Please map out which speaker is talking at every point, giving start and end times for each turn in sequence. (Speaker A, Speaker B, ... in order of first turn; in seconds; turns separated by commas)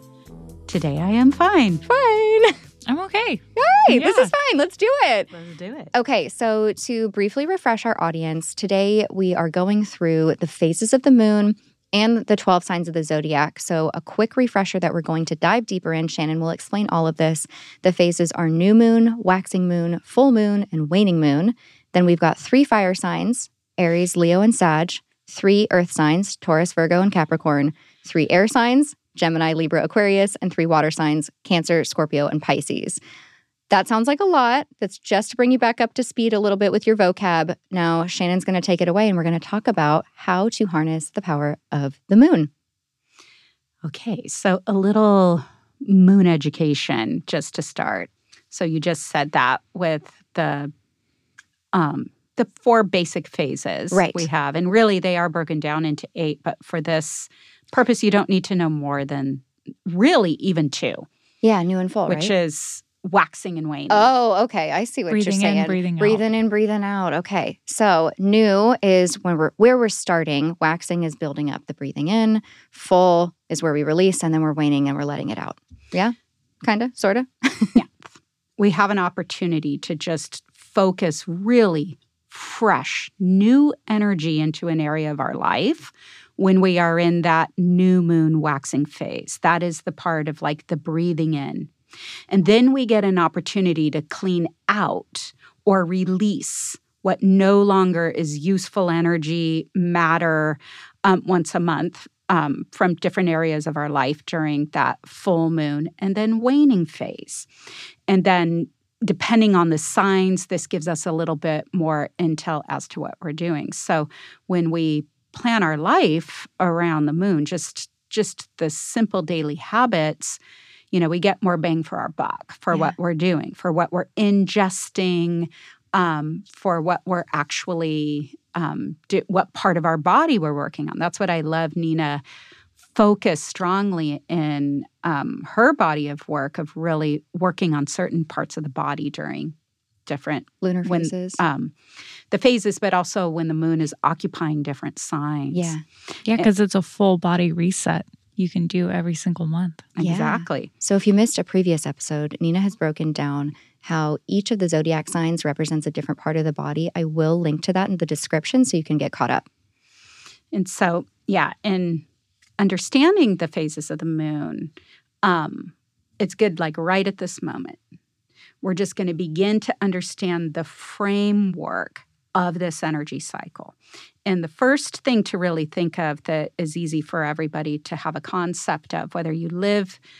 Speaker A: 0.7-1.8, Speaker B: 1.9-2.6, Speaker C: 2.9-4.3, Speaker B: 3.6-5.3, Speaker A: 5.3-5.9, Speaker B: 5.9-33.0, Speaker B: 33.7-42.5, Speaker A: 43.8-50.7, Speaker A: 51.7-61.1, Speaker B: 53.9-54.3, Speaker B: 61.4-62.3, Speaker A: 62.1-64.1, Speaker B: 63.9-77.8, Speaker C: 65.1-66.2, Speaker A: 77.8-91.7, Speaker A: 92.3-107.5, Speaker A: 108.1-120.4, Speaker A: 120.9-132.2, Speaker A: 132.9-139.5, Speaker A: 140.1-141.7, Speaker B: 140.6-141.4, Speaker A: 142.3-145.8, Speaker B: 145.5-145.8, Speaker C: 146.3-149.9, Speaker A: 150.0-150.7, Speaker B: 150.0-159.5, Speaker A: 160.5-162.1, Speaker A: 162.6-164.7, Speaker A: 165.2-167.8, Speaker A: 168.6-180.0